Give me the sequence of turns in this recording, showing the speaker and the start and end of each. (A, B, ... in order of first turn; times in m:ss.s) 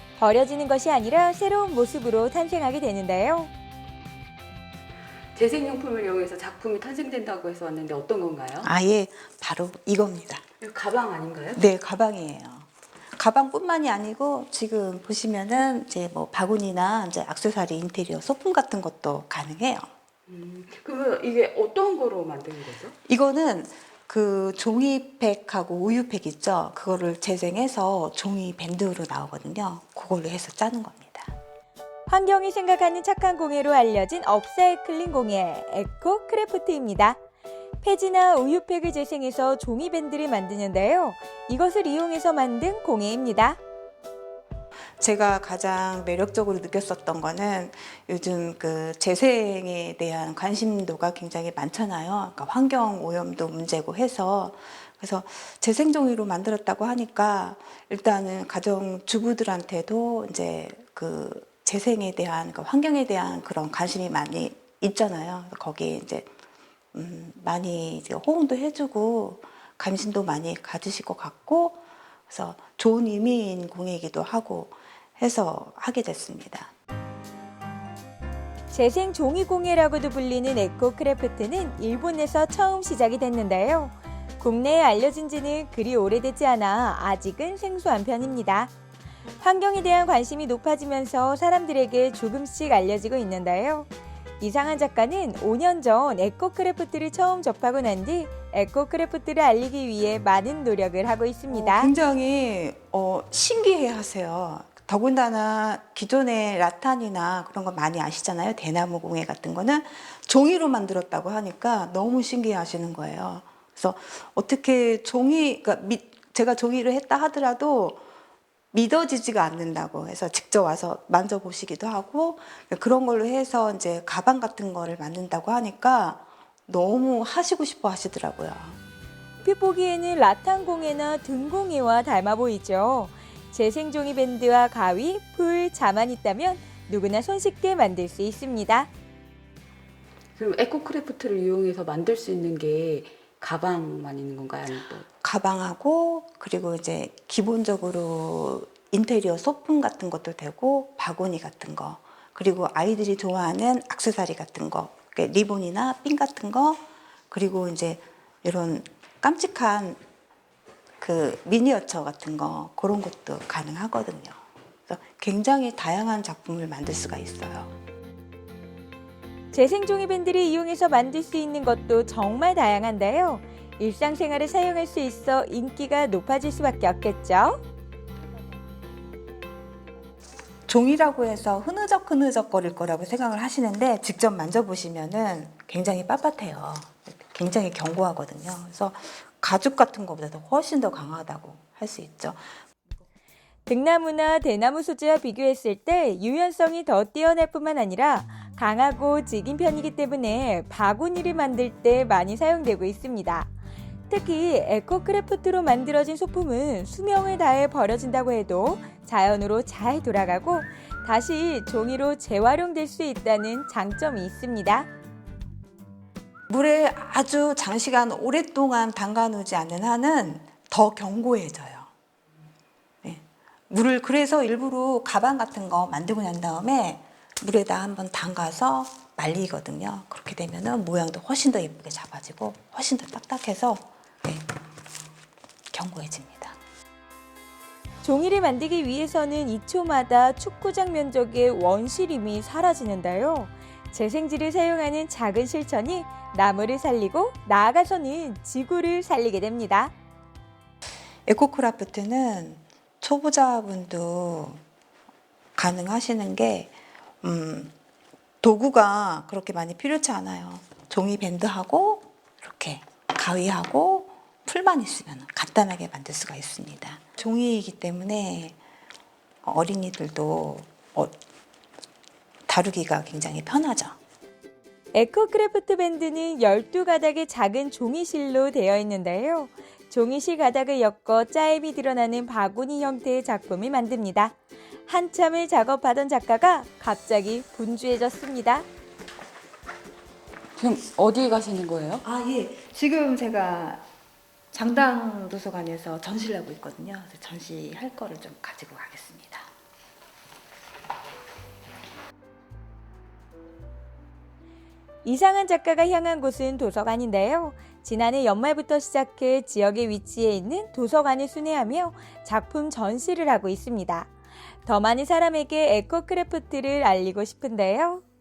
0:00.2-0:03.5 A
0:05.3-0:08.7 B
0:08.6-0:10.4 C
0:10.6-0:11.7 B
0:11.5-0:19.9 C
0:20.3-0:22.9 B
0:23.1-0:31.3 C
0:32.1-0:37.2 A
0:37.8-0:43.6 A
0:45.0-1:06.3 C
1:06.9-1:16.7 C
1:18.7-1:28.7 A
1:29.4-1:33.9 A
1:34.4-1:41.9 A
1:41.5-1:58.0 C
1:58.7-2:08.8 C
2:09.4-2:18.9 A
2:20.4-2:25.0 B
2:25.2-2:40.0 C
2:41.0-2:47.7 C
2:49.5-2:57.6 A
3:00.7-3:12.5 C
3:13.7-3:23.5 A
3:24.1-3:34.9 A
3:36.5-3:41.9 C
3:43.0-3:54.5 C
3:55.7-3:56.6 C
3:58.0-4:09.9 A
4:11.3-4:14.6 C
4:15.6-4:17.7 C
4:18.4-4:28.6 C
4:29.4-4:31.1 C
4:32.5-4:34.0 C
4:34.9-4:44.4 A
4:44.9-4:48.6 A
4:50.6-4:52.0 B
4:52.0-4:53.8 C
4:54.5-4:59.5 C
5:05.0-5:14.1 A
5:14.6-5:18.0 A